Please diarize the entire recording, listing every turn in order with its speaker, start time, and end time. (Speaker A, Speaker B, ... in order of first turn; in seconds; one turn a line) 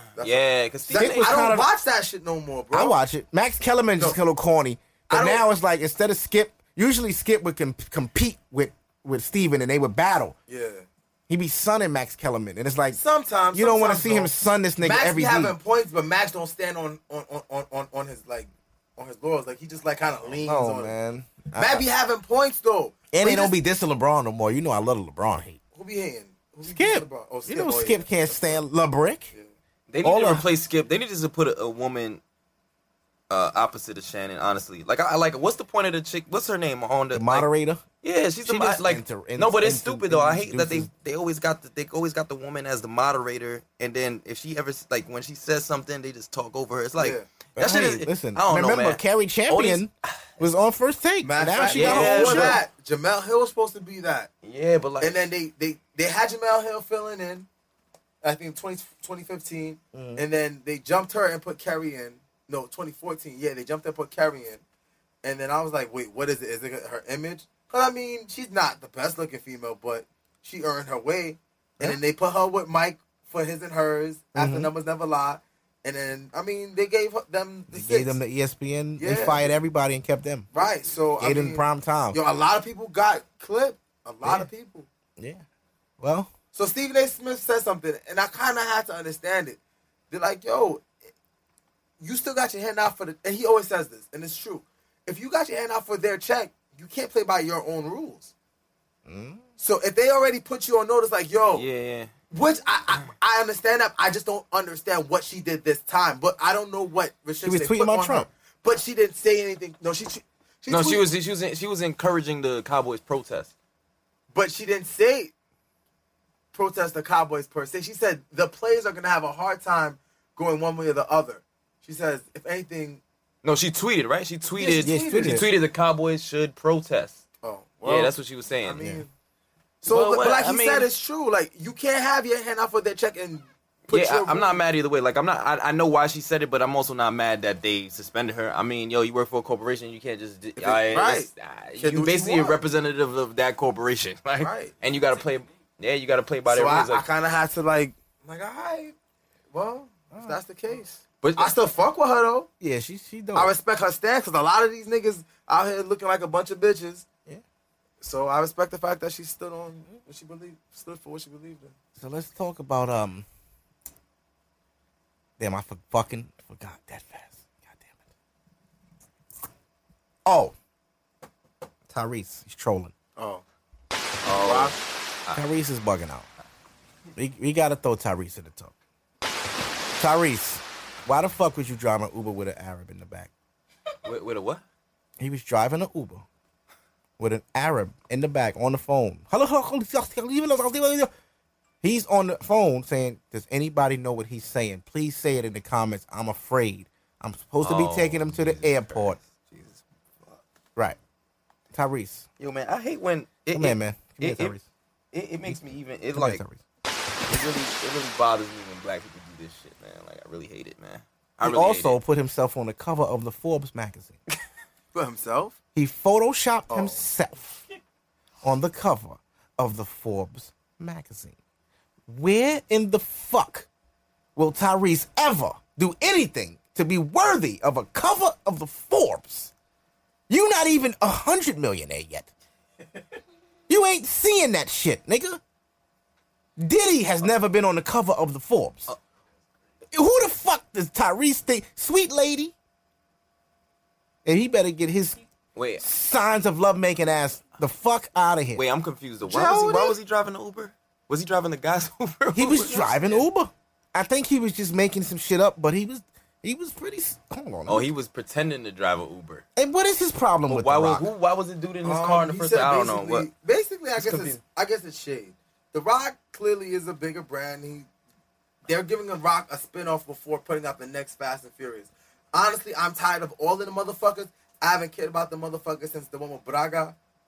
Speaker A: 0.2-3.0
Speaker B: 0.2-1.5
Speaker C: 0.9-1.7
Speaker C: 2.7-10.3
Speaker A: 5.1-5.5
Speaker A: 10.5-10.9
Speaker C: 11.3-13.0
Speaker A: 12.9-20.9
Speaker C: 13.5-15.6
Speaker C: 20.3-21.9
Speaker A: 21.5-23.6
Speaker C: 23.1-25.6
Speaker A: 25.7-28.6
Speaker C: 26.7-29.3
Speaker B: 29.9-32.2
Speaker C: 30.0-30.5
Speaker B: 33.3-37.5
Speaker C: 37.1-37.9
Speaker B: 38.0-50.2
Speaker C: 38.4-40.9
Speaker A: 47.0-47.3
Speaker C: 47.6-52.6
Speaker A: 51.2-54.3
Speaker B: 51.7-52.6
Speaker B: 54.4-55.3
Speaker A: 55.0-57.5
Speaker A: 58.2-64.6
Speaker C: 59.9-60.2
Speaker A: 65.2-78.2
Speaker C: 74.3-74.7
Speaker C: 77.7-80.5
Speaker A: 79.0-79.5
Speaker A: 80.5-84.9
Speaker C: 81.2-82.2
Speaker C: 85.2-85.4
Speaker C: 86.0-86.3
Speaker A: 86.5-89.6
Speaker A: 90.1-90.9
Speaker A: 92.0-98.3
Speaker C: 99.1-99.4
Speaker A: 99.6-101.7
Speaker B: 101.5-102.1
Speaker A: 102.3-111.1
Speaker C: 107.4-108.3
Speaker B: 110.7-113.5
Speaker A: 114.3-115.3
Speaker A: 116.5-123.0
Speaker B: 123.4-127.2
Speaker A: 124.6-125.5
Speaker C: 124.8-125.5
Speaker A: 127.4-129.1
Speaker B: 127.8-128.8
Speaker A: 129.8-134.6
Speaker B: 129.9-130.9
Speaker B: 133.9-147.1
Speaker A: 140.6-142.6
Speaker A: 144.4-144.8
Speaker A: 146.5-148.9
Speaker A: 149.5-152.5
Speaker B: 151.2-151.5
Speaker C: 152.6-153.5
Speaker A: 153.3-157.1
Speaker A: 158.0-161.8
Speaker C: 162.0-163.3
Speaker C: 165.4-168.0
Speaker C: 170.2-170.6
Speaker C: 171.9-172.9
Speaker A: 173.2-173.4
Speaker B: 174.2-175.4
Speaker A: 174.3-174.8
Speaker C: 175.3-176.3
Speaker C: 177.2-178.8
Speaker C: 180.0-183.3
Speaker B: 184.0-184.6
Speaker C: 185.2-186.2
Speaker C: 187.2-191.1
Speaker C: 191.8-199.2
Speaker B: 197.6-200.4
Speaker C: 201.7-202.3
Speaker B: 202.4-204.5
Speaker C: 203.5-204.7
Speaker B: 205.1-206.4
Speaker C: 206.1-206.6
Speaker B: 207.3-212.0
Speaker C: 211.4-214.2
Speaker A: 214.9-215.6
Speaker C: 215.8-217.6
Speaker A: 216.7-217.0
Speaker C: 218.4-221.4
Speaker C: 222.1-223.7
Speaker C: 224.4-229.5
Speaker C: 230.3-232.3
Speaker C: 233.7-235.4
Speaker C: 236.6-238.9
Speaker C: 239.9-242.5
Speaker C: 244.2-245.2
Speaker B: 245.6-245.8
Speaker C: 245.8-248.6
Speaker B: 248.6-253.2
Speaker A: 249.3-249.9
Speaker C: 252.3-257.9
Speaker B: 257.7-259.4
Speaker C: 259.6-261.1
Speaker B: 260.5-263.3
Speaker A: 261.8-267.9
Speaker B: 264.0-264.4
Speaker A: 268.6-277.0